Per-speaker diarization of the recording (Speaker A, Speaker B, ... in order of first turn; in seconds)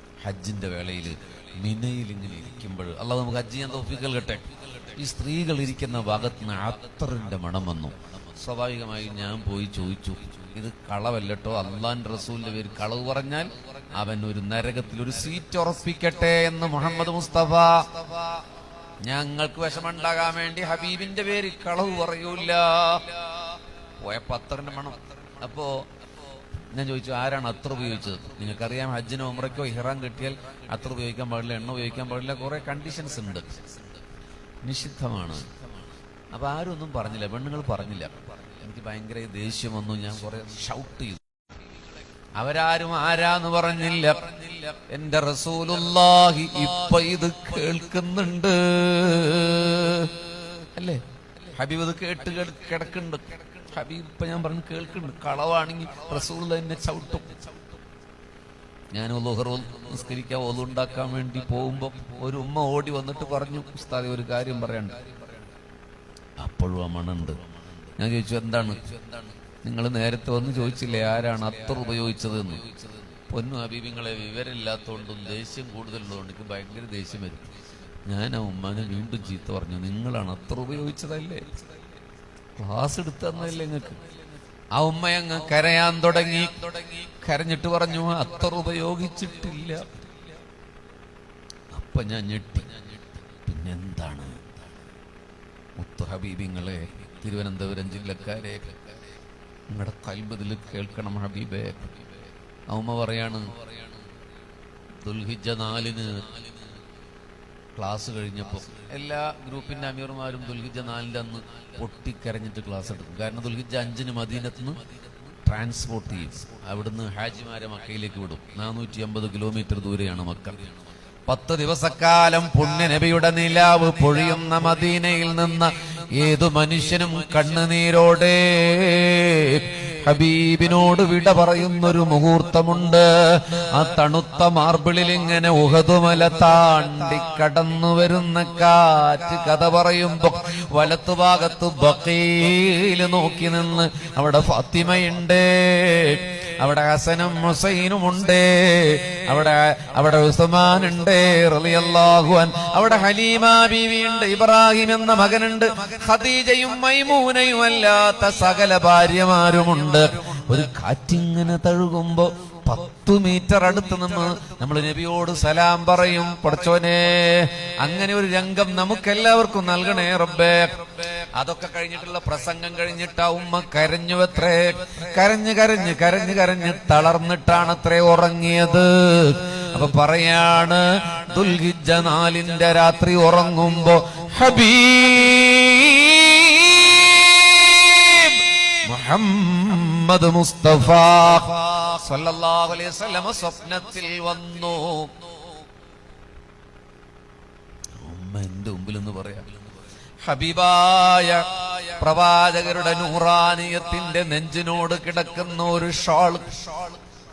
Speaker A: 0.2-18.2, 19.0-25.9, 26.7-33.8, 34.6-35.6, 36.3-41.2, 42.4-57.5, 58.9-65.1, 66.4-67.4, 68.0-77.5, 78.0-81.6, 82.5-84.1, 84.7-90.0, 91.7-94.5, 95.8-98.9, 99.7-102.1, 102.7-103.6, 105.0-106.4, 107.8-114.8, 115.4-120.7, 121.2-195.3, 198.0-199.5, 200.2-207.0